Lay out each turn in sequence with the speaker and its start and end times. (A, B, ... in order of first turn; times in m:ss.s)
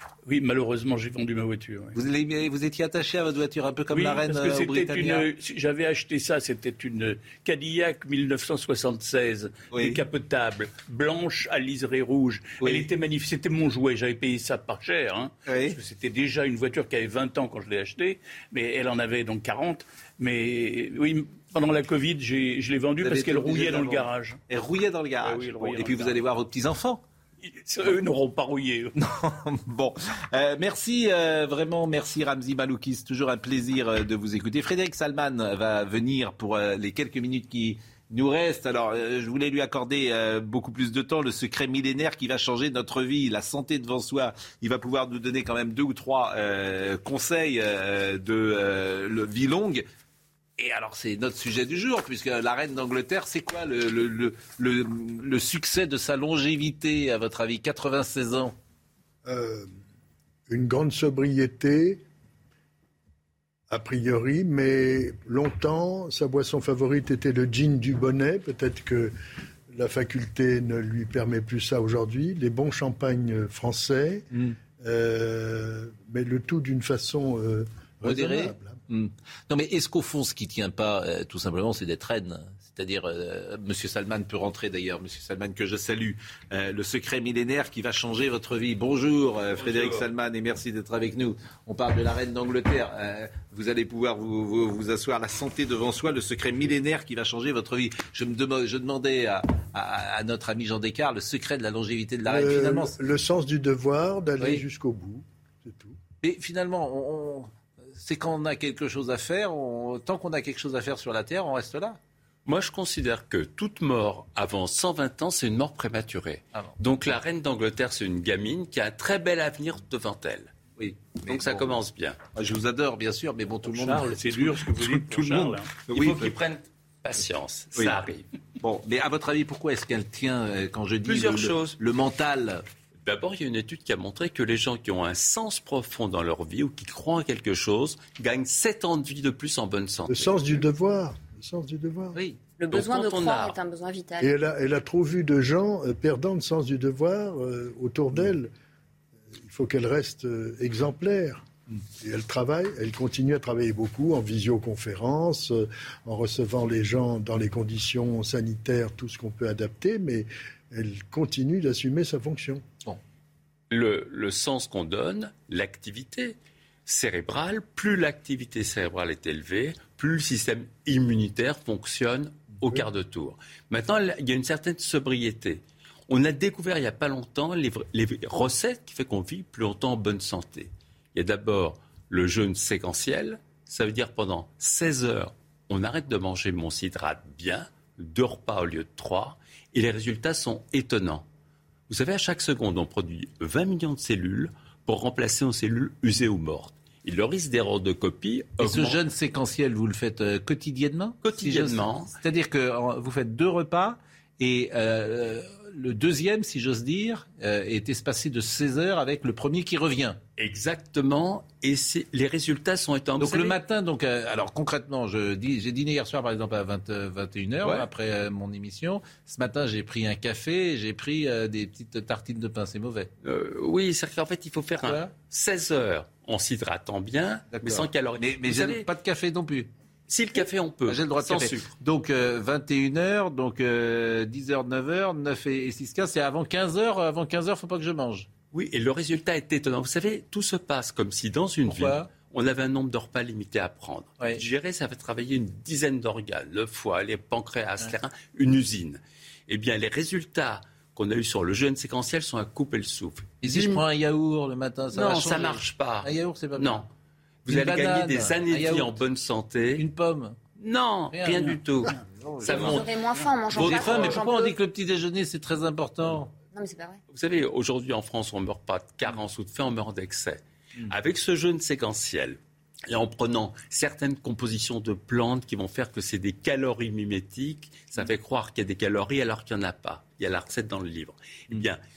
0:00.3-0:02.0 A
0:02.0-0:05.3 B
0:03.9-0:24.4 A
0:09.7-0:10.0 B
0:12.6-0:12.9 B
0:15.5-0:15.8 B
0:23.0-0:27.0 B
0:25.2-0:26.2 A
0:27.4-0:28.9 A
0:29.0-0:49.8 B
0:50.6-0:58.6 B
0:59.2-0:59.7 C
1:00.5-1:02.0 C
1:03.7-1:09.1 C
1:09.7-1:14.3 C
1:14.8-1:18.8 C
1:18.0-1:43.0 B
1:29.6-1:30.0 D
1:42.3-1:46.0 C
1:46.2-1:52.0 B
1:52.5-2:00.5 D
2:00.8-2:01.8 B
2:01.3-2:02.2 D
2:02.4-2:06.4 B
2:03.7-2:05.8 A
2:05.9-2:08.2 D
2:07.7-2:08.0 B
2:08.6-2:12.6 B
2:11.0-2:11.8 D
2:13.1-2:20.4 D
2:20.1-2:22.2 C
2:22.6-2:24.3 E
2:22.7-2:23.6 D
2:24.2-2:28.5 C
2:29.3-2:31.4 C
2:32.0-2:42.6 C
2:43.7-3:11.2 D
3:11.9-3:19.0 D
3:18.6-3:30.2 B
3:21.2-3:22.1 D
3:30.4-3:33.6 D
3:33.2-3:43.1 B
3:37.6-3:37.9 D
3:43.2-3:48.8 D
3:44.8-3:45.1 B
3:47.5-3:49.7 B
3:50.1-3:51.7 D
3:50.9-3:58.3 B
3:58.5-4:13.8 D
4:01.6-4:02.1 B
4:13.4-4:16.8 B
4:14.9-4:16.9 D
4:17.4-4:19.8 D
4:17.5-4:19.0 B
4:19.8-4:20.4 B
4:20.6-4:22.9 D
4:21.1-4:22.9 B
4:22.5-4:24.6 E
4:23.5-4:26.3 B
4:23.6-4:24.1 D
4:26.5-4:27.0 E
4:27.1-4:41.8 D